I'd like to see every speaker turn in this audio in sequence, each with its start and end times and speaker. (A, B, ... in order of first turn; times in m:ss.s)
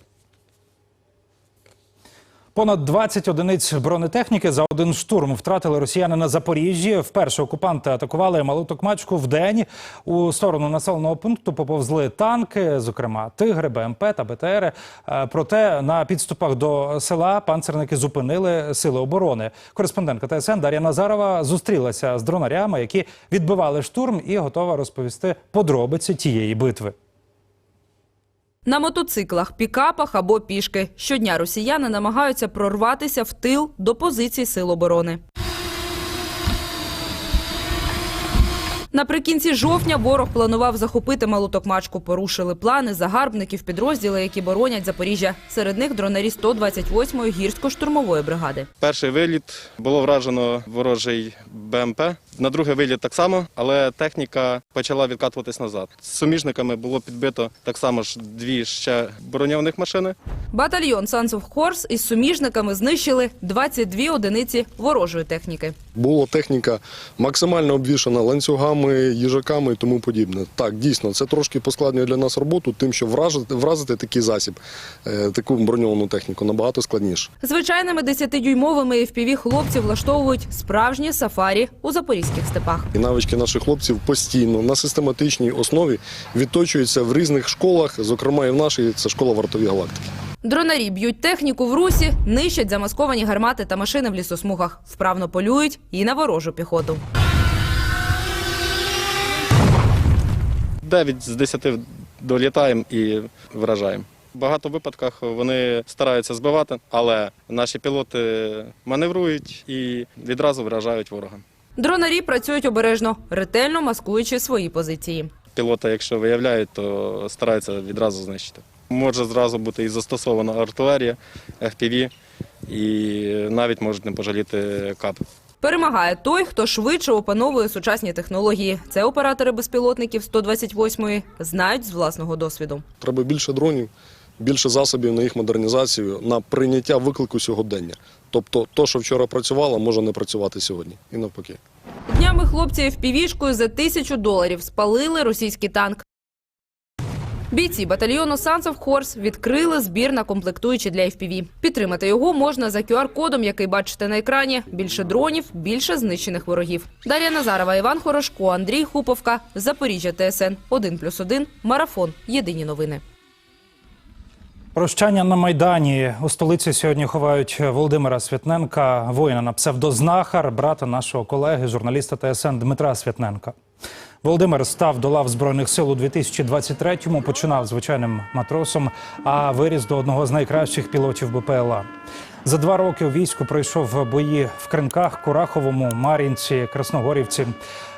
0:02.6-0:27.0 A
0:28.7-0:35.2 B
0:38.9-0:48.7 B
0:48.8-1:00.2 C
1:00.5-1:05.8 B
1:06.0-1:17.3 D
1:17.4-1:22.9 B
1:22.9-1:30.0 D
1:30.4-1:37.0 B
1:40.8-1:51.4 C
1:51.8-1:55.3 B
1:55.5-2:02.1 C
2:02.7-2:05.2 C
2:05.6-2:12.8 B
2:13.0-2:21.6 D
2:22.1-2:26.0 B
2:27.5-2:43.0 B
2:44.8-2:53.6 A
2:54.2-3:01.9 A
3:02.4-3:07.6 A